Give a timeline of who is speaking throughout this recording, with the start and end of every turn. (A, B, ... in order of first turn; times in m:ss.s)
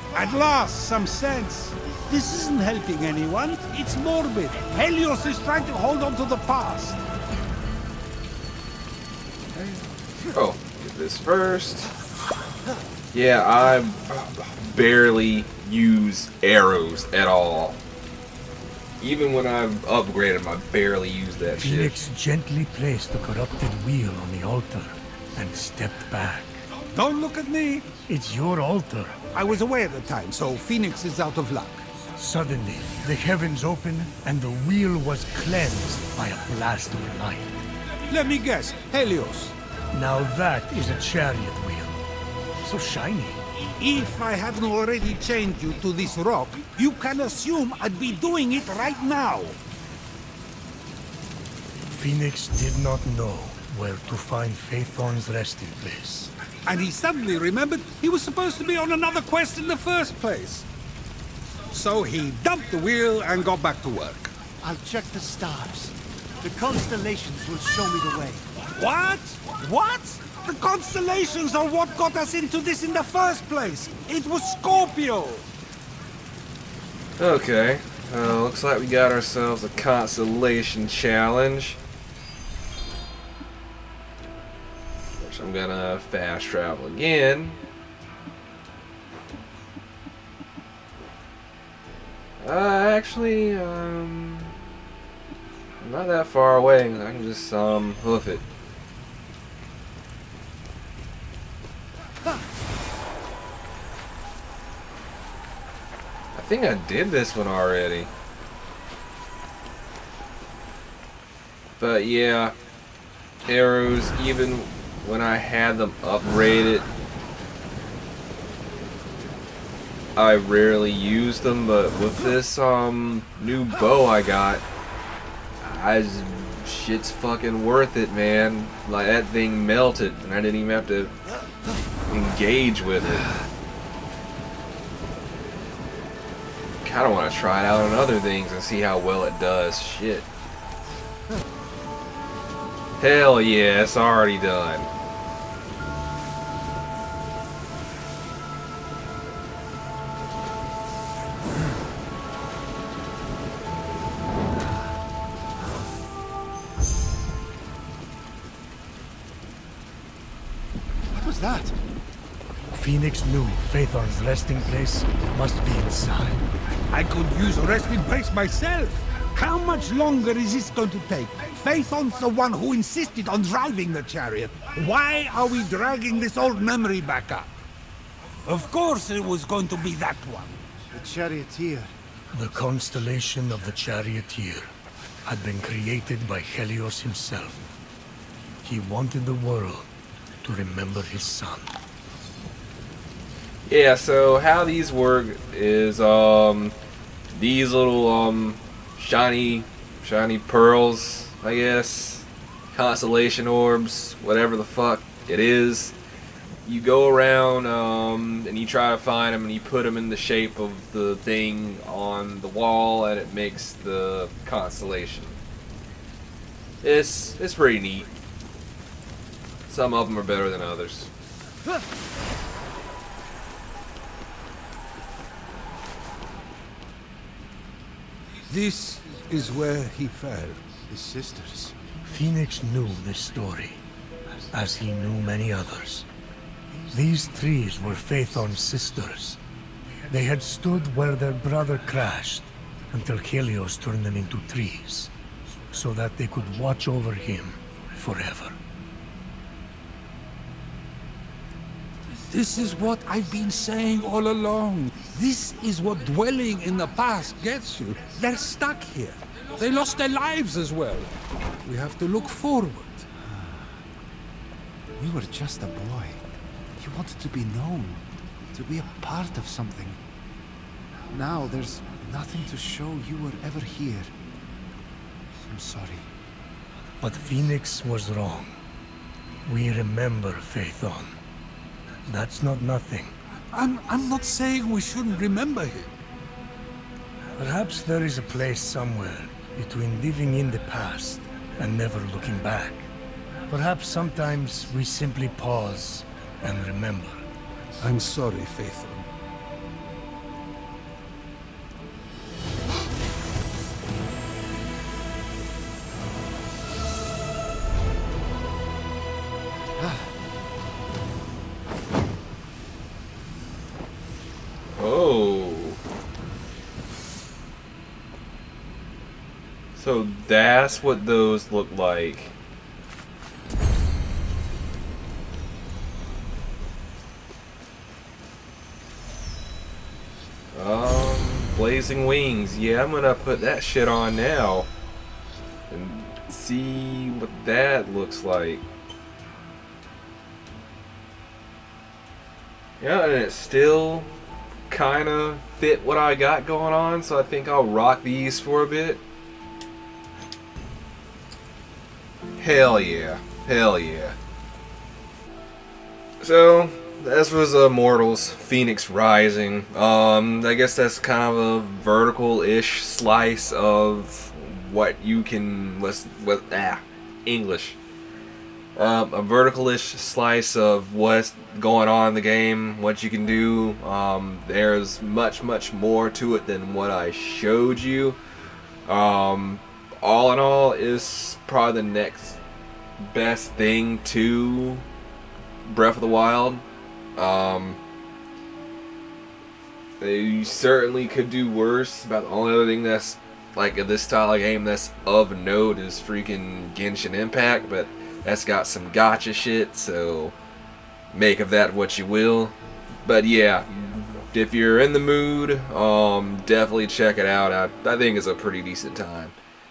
0:00.1-0:07.0 A
0:09.5-0:11.9 B
0:13.1-0:17.8 B
0:19.0-0:22.0 B
0:21.6-0:26.7 C
0:26.9-0:27.9 A
0:28.1-0:29.3 C
0:29.3-0:31.9 A
0:32.2-0:37.6 C
0:38.1-0:39.6 A
0:39.9-0:42.0 C
0:42.6-0:43.4 C
0:43.8-0:49.6 A
0:51.9-0:56.3 C
0:56.6-1:00.7 A
1:01.7-1:04.3 A
1:04.6-1:08.5 D
1:08.6-1:15.5 A
1:17.2-1:21.8 B
1:25.2-1:27.6 B
1:32.4-1:34.6 B
1:35.8-1:38.4 B
1:46.3-1:48.1 B
1:51.8-1:52.6 B
1:53.5-1:56.9 B
2:00.2-2:04.6 B
2:05.6-2:11.2 B
2:12.1-2:13.3 B
2:16.8-2:20.3 B
2:23.0-2:24.9 B
2:41.1-2:41.8 D
2:42.7-2:46.4 C
2:46.9-2:57.5 A
2:58.4-3:00.6 A
3:00.9-3:01.9 D
3:02.3-3:04.7 C
3:05.3-3:07.6 C
3:08.6-3:09.9 C
3:10.4-3:11.7 C
3:13.7-3:16.8 B
3:17.3-3:26.0 B
3:26.6-3:35.4 B
3:36.8-3:38.1 B
3:39.7-3:41.1 B
3:48.5-3:50.6 A
3:50.9-3:51.8 D
3:52.0-3:53.8 C
3:54.5-3:56.1 C
3:56.9-3:59.4 C
4:00.1-4:05.1 C
4:05.7-4:08.6 C
4:12.3-4:21.1 A
4:21.6-4:23.1 A
4:23.2-4:23.7 D
4:25.0-4:26.2 D
4:26.8-4:30.0 D
4:31.1-4:34.1 D
4:35.5-4:36.1 D
4:37.0-4:38.6 C
4:39.5-4:41.2 C
4:42.1-4:43.1 C
4:43.5-4:45.9 A
4:47.4-4:52.9 C
4:53.5-4:57.2 C
4:57.8-4:59.1 A
5:14.8-5:15.8 B
5:19.8-5:22.4 B
5:30.5-5:34.7 B
5:35.7-5:38.6 B
5:42.8-5:44.1 B
5:44.7-5:49.0 B
5:52.4-5:54.2 B
5:56.2-6:07.8 B
6:08.8-6:18.2 B
6:18.9-6:22.4 B
6:23.1-6:24.9 B
6:25.6-6:26.6 B
6:27.2-6:27.8 B
6:30.0-6:40.4 B
6:41.1-6:49.4 B